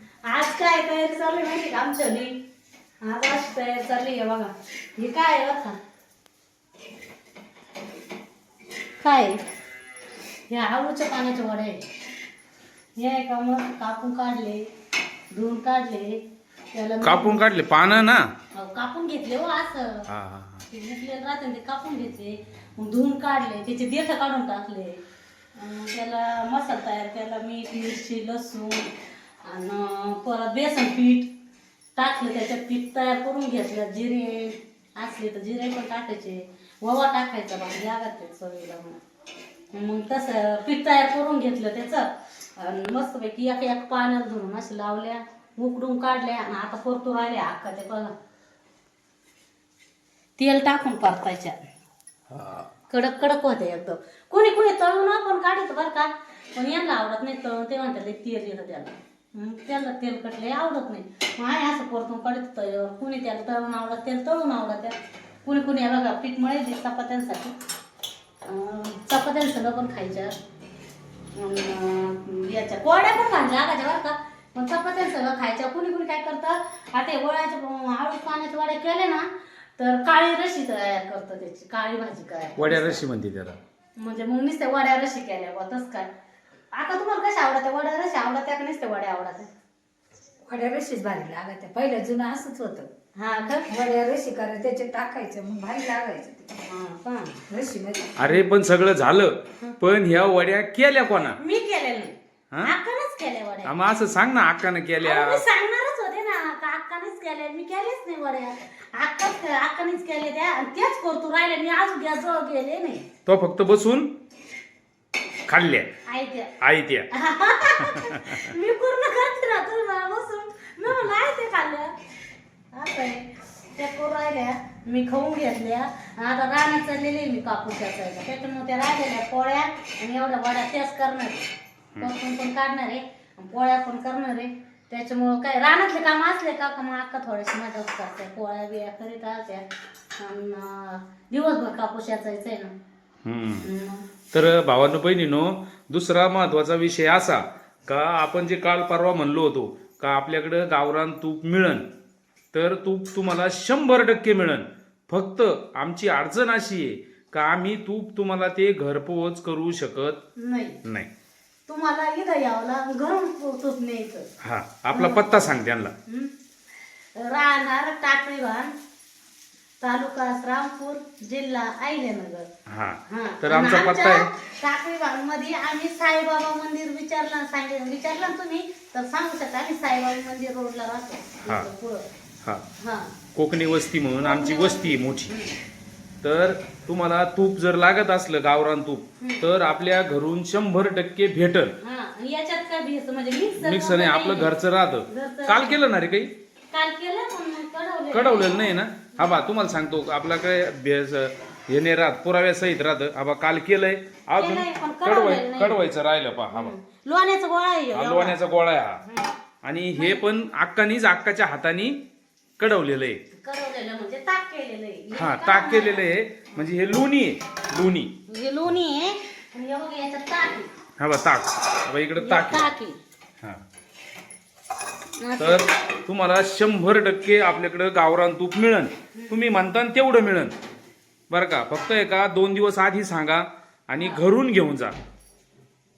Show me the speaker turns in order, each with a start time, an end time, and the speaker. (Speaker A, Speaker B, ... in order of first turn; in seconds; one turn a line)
Speaker A: 0.2-2.3
Speaker A: 3.0-5.8
Speaker A: 9.0-9.4
Speaker A: 10.5-11.8
Speaker A: 13.0-14.7
Speaker A: 15.3-16.2
Speaker A: 16.7-17.5
Speaker B: 17.0-18.3
Speaker A: 18.5-20.1
Speaker B: 20.1-20.7
Speaker A: 20.7-25.0
Speaker A: 25.6-31.3
Speaker A: 32.0-39.0
Speaker A: 39.7-48.1
Speaker A: 50.4-51.7
Speaker B: 52.3-52.6
Speaker A: 52.9-67.5
Speaker A: 68.4-70.4
Speaker A: 71.3-83.0
Speaker B: 82.6-83.6
Speaker A: 84.0-86.1
Speaker A: 86.7-89.5
Speaker C: 90.5-92.9
Speaker A: 93.2-93.7
Speaker C: 93.7-96.6
Speaker A: 96.7-97.4
Speaker C: 97.5-98.1
Speaker B: 98.2-101.4
Speaker A: 101.4-103.7
Speaker B: 103.6-105.4
Speaker A: 105.0-113.1
Speaker B: 113.2-114.1
Speaker B: 115.5-115.9
Speaker A: 116.1-116.5
Speaker B: 116.6-117.1
Speaker A: 117.1-121.9
Speaker B: 117.8-118.5
Speaker A: 122.7-131.5
Speaker A: 132.0-142.7
Speaker B: 143.2-143.7
Speaker A: 143.6-144.1
Speaker B: 144.3-151.9
Speaker B: 152.5-160.2
Speaker A: 160.4-160.8
Speaker B: 160.8-161.1
Speaker A: 161.7-164.3
Speaker B: 164.4-165.9
Speaker A: 164.9-165.3
Speaker A: 166.1-166.3
Speaker A: 167.2-168.7
Speaker A: 169.8-172.5
Speaker B: 172.7-174.3
Speaker A: 173.1-182.1
Speaker A: 182.8-183.2
Speaker B: 183.3-185.3
Speaker A: 184.2-185.6
Speaker B: 186.2-191.8
Speaker A: 191.8-194.5
Speaker B: 193.6-196.3
Speaker A: 195.1-195.8
Speaker A: 196.7-199.4
Speaker B: 198.1-206.8
Speaker A: 204.4-205.8
Speaker A: 206.5-208.4
Speaker B: 207.9-209.0
Speaker A: 209.1-209.3
Speaker B: 209.6-212.0
Speaker A: 210.0-210.2
Speaker B: 212.6-213.2
Speaker A: 213.4-216.7
Speaker B: 215.2-218.1
Speaker A: 218.3-220.7
Speaker B: 221.0-222.7
Speaker A: 222.2-223.0
Speaker A: 225.2-225.7
Speaker B: 225.4-230.6
Speaker B: 231.3-235.0
Speaker A: 233.9-234.2